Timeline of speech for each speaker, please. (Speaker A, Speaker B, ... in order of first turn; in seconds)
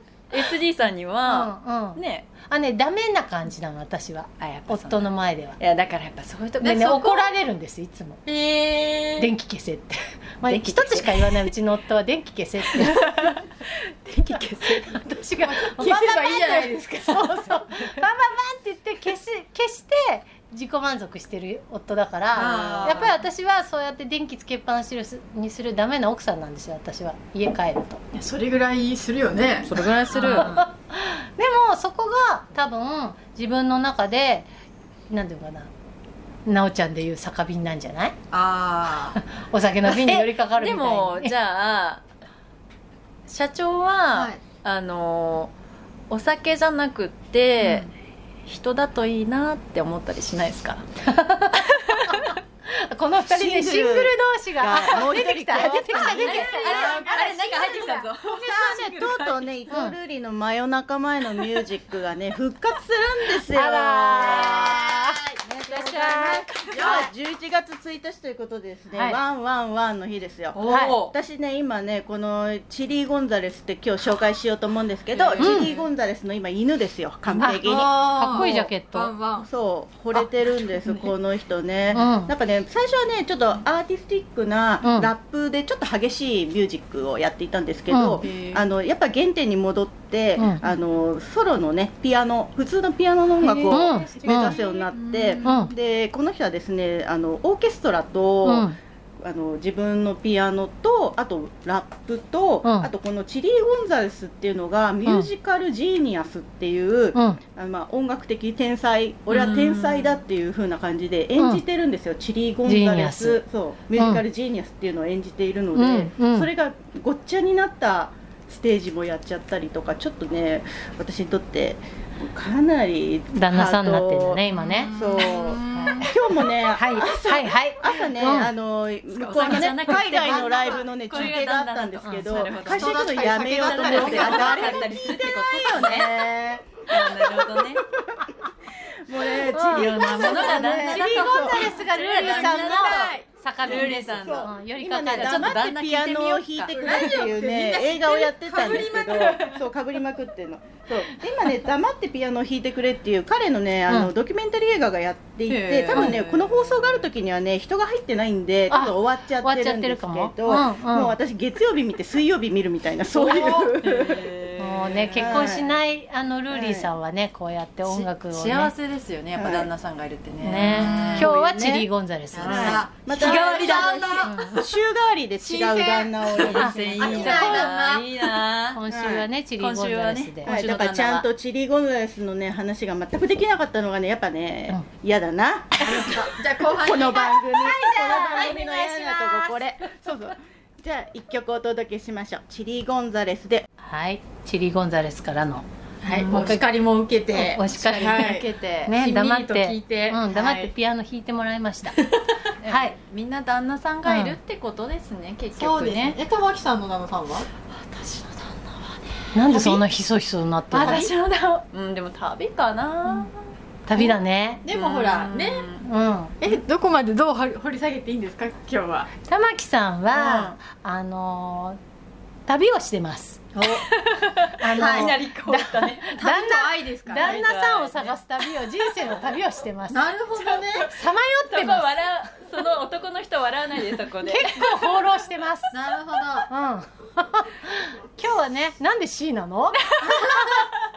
Speaker A: 0.3-2.3, 4.4-6.9, 10.5-11.5, 12.8-15.1, 22.4-23.1, 29.6-30.5, 40.1-42.0, 43.3-45.5, 46.1-47.9, 48.5-50.9, 51.6-52.3, 56.2-59.4, 65.7-67.0, 70.5-71.1, 109.3-110.2, 129.1-136.2, 136.9-137.8, 139.8-144.5, 145.1-147.1, 155.5-157.0, 163.1-165.5, 167.9-171.3, 172.5-174.3, 176.3-178.8, 179.6-181.3, 197.9-198.9, 202.6-206.2, 207.8-209.0, 210.7-213.3, 214.7-215.8, 220.2-220.5, 223.7-226.1, 227.2-228.0, 231.5-235.0
Speaker B: 1.3-5.6, 6.6-8.2, 9.2-13.1, 14.9-28.0, 30.1-34.5, 35.1-35.7, 36.5-38.2, 39.2-41.3, 51.1-58.0, 59.7-60.0, 63.5-65.2, 65.8-66.4, 68.9-69.2, 70.7-71.0, 75.4-75.7, 77.4-79.1, 81.9-82.3, 84.8-85.1, 87.9-88.2, 90.4-90.6, 93.7-94.5, 95.5-95.7, 98.5-98.8, 102.6-102.9, 107.1-107.4, 112.7-113.4, 114.0-114.2, 115.8-116.5, 123.3-124.9, 125.7-126.1, 126.7-128.5, 132.0-132.4, 139.5-145.5, 158.7-161.2, 164.6-168.7, 170.4-172.9, 174.3-174.6, 177.3-177.6, 178.7-180.6, 187.5-189.6, 193.8-196.7, 197.3-202.0, 202.7-202.9, 204.1-204.4, 209.3-211.1, 213.9-214.6, 215.8-216.4, 219.2-221.8, 222.5-223.5, 224.6-230.1, 230.9-231.9, 234.2-235.7, 236.5-239.9
Speaker C: 6.6-7.3, 8.2-9.3, 15.5-17.5, 22.3-23.1, 28.1-30.6, 38.3-39.2, 44.1-44.4, 47.6-47.9, 56.1-58.0, 64.3-67.0, 75.1-75.9, 77.4-79.5, 88.2-88.6, 93.4-95.7, 124.5-126.1, 129.4-131.4, 132.7-136.6, 139.7-140.9, 142.2-144.4, 146.7-149.6, 170.6-171.3, 172.3-174.3, 175.4-178.1, 185.8-187.5, 196.0-200.7, 205.6-207.5, 209.5-209.8, 214.0-215.7, 216.4-219.1, 223.6-223.8, 224.8-225.1, 226.2-227.5, 229.9-230.9, 235.7-236.5, 240.0-240.7
Speaker D: 53.2-57.0, 58.5-64.8, 66.6-78.5, 79.4-137.6, 139.1-141.7, 143.7-164.3, 165.1-165.7, 166.5-166.9, 169.4-169.7, 171.1-171.9, 172.4-177.7, 178.9-179.2, 180.5-186.1, 186.6-193.7